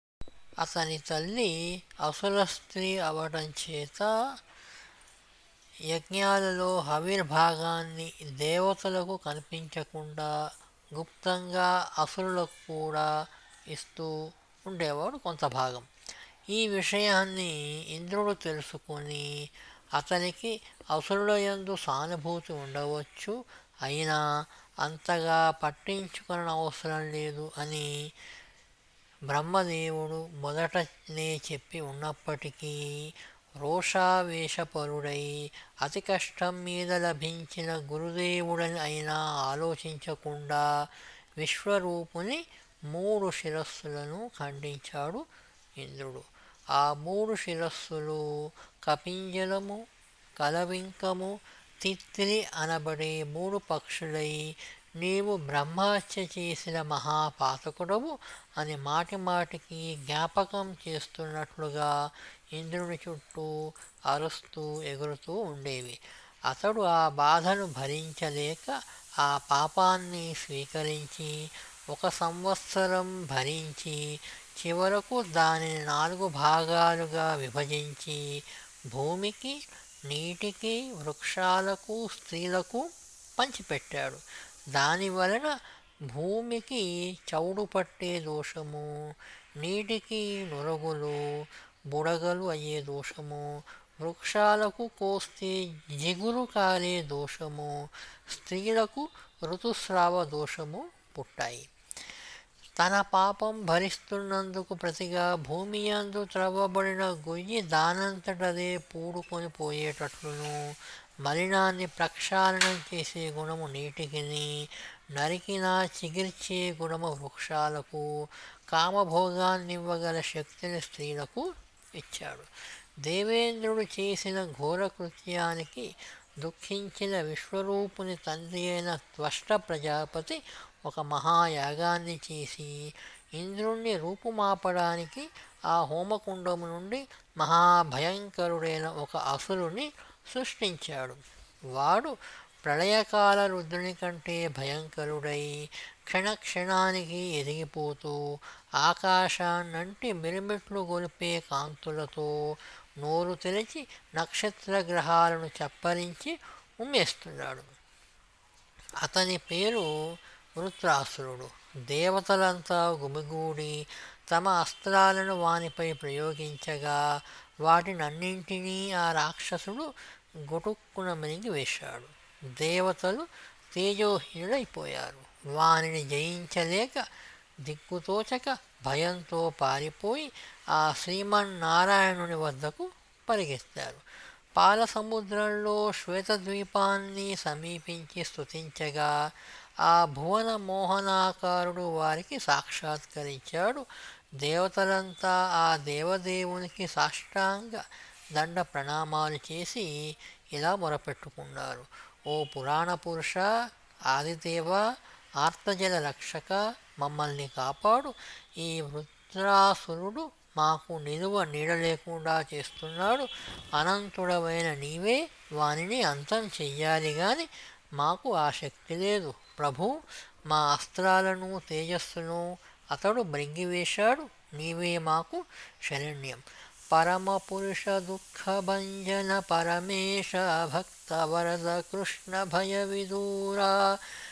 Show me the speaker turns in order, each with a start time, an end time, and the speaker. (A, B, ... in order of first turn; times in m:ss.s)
0:00.6-0:04.1 A
0:05.9-0:10.3 A
0:10.9-0:13.1 A
0:13.7-0:14.1 A
0:14.6-0:15.9 A
0:16.5-0:28.1 A
0:29.3-0:45.2 A
0:45.8-0:49.8 A
0:50.4-1:01.9 A
1:02.5-1:03.5 A
1:04.1-1:24.2 A
1:24.7-1:25.6 A
1:26.1-1:41.7 A
1:42.8-2:02.5 A
2:03.0-2:21.2 A
2:21.7-2:28.2 A
2:28.8-2:37.7 A
2:39.0-2:47.0 A
2:47.6-2:49.9 A
2:50.4-2:57.0 A
2:57.6-3:04.0 A
3:04.6-3:09.3 A
3:09.8-3:13.8 A
3:14.4-3:23.5 A
3:24.1-3:54.2 A